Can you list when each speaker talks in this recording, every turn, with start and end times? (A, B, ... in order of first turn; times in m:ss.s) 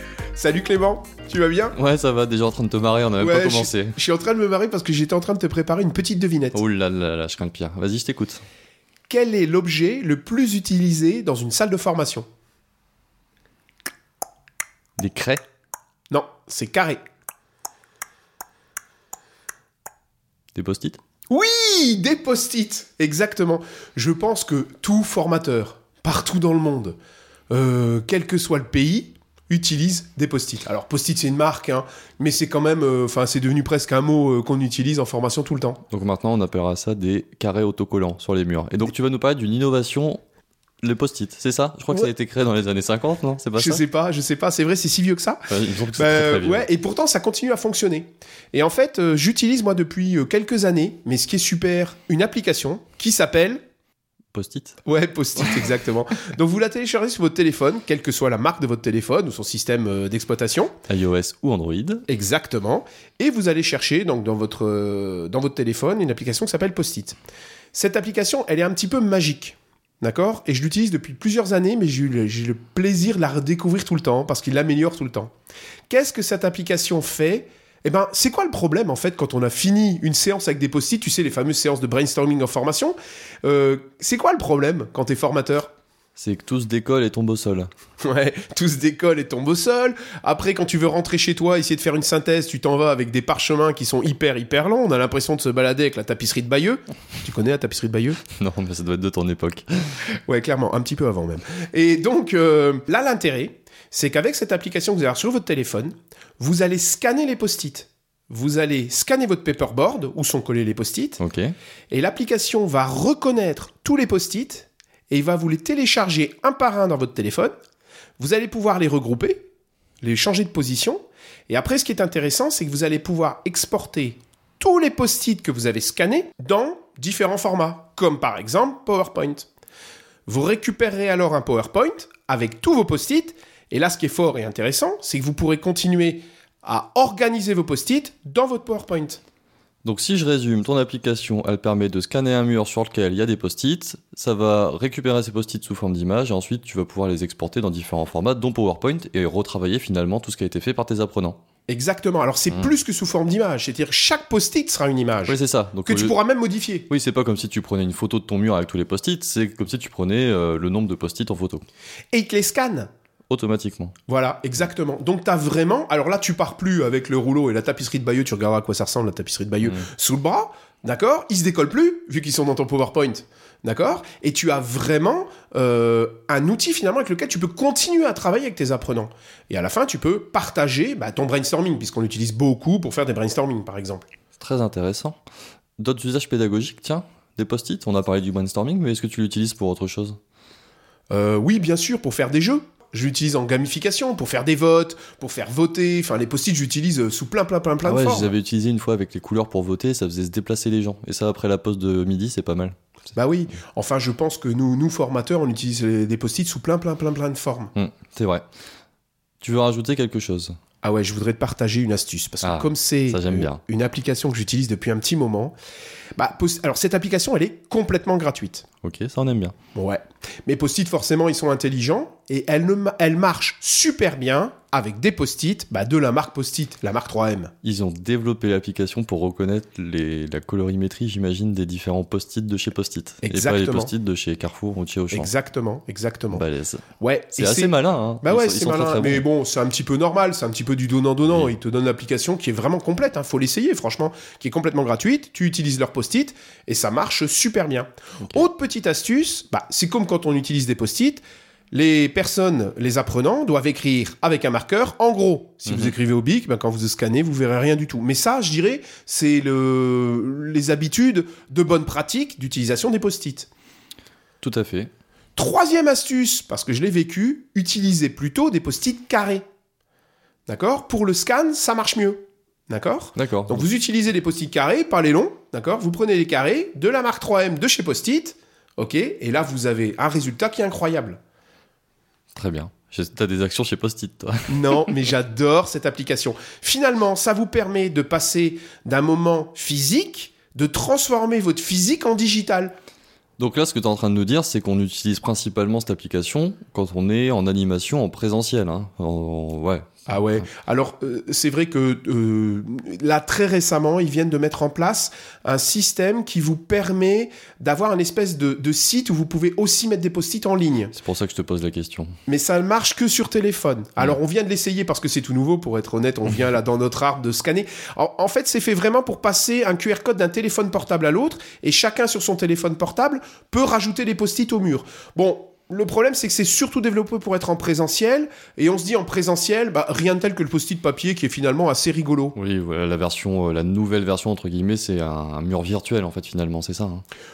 0:00.4-0:01.8 A
0:01.8-0:04.0 B
0:03.2-0:06.6 A
0:06.5-0:08.4 B
0:09.1-0:12.3 A
0:15.0-0:15.4 B
0:16.1-0:17.0 A
0:20.6-0:21.0 B
0:21.3-0:27.0 A
0:27.5-0:35.8 A
0:35.9-0:40.2 B
0:40.8-0:43.8 B
0:43.6-0:53.6 A
0:45.5-0:46.7 B
0:54.3-0:54.8 B
0:54.8-1:00.7 A
1:00.9-1:02.0 B
1:02.1-1:07.2 A
1:07.7-1:15.3 A
1:15.9-1:25.7 A
1:26.2-1:27.7 B
1:28.0-1:38.2 A
1:38.4-1:39.7 B
1:40.3-1:51.2 A
1:51.2-1:51.5 B
1:51.9-1:57.5 A
1:58.2-1:59.4 A
2:00.0-2:09.5 A
2:10.3-2:19.2 A
2:19.8-2:31.4 B
2:31.7-2:36.9 A
2:35.3-2:36.2 B
2:36.9-2:41.6 B
2:42.1-2:42.9 A
2:43.3-2:43.9 B
2:44.1-3:04.0 A
3:04.4-3:05.2 B
3:05.8-3:10.2 B
3:11.1-3:18.3 A
3:17.8-3:22.8 B
3:23.1-3:27.7 A
3:27.8-3:28.4 B
3:29.4-3:30.6 B
3:30.8-3:35.6 A
3:32.4-3:33.6 B
3:36.2-3:38.6 A
3:38.8-3:39.6 B
3:39.8-3:47.5 A
3:47.6-3:55.3 B
3:53.2-3:53.9 A
3:55.1-3:56.4 A
3:56.3-3:56.8 B
3:57.0-4:23.5 A
3:57.4-3:59.2 B
4:15.7-4:15.9 B
4:24.4-4:24.9 B
4:25.4-4:29.4 A
4:30.5-4:41.2 A
4:33.2-4:33.7 B
4:42.3-4:44.9 B
4:44.5-4:52.8 A
4:53.4-5:00.1 B
5:00.1-5:11.0 A
5:11.0-5:12.1 B
5:12.3-5:32.4 A
5:32.4-5:37.0 B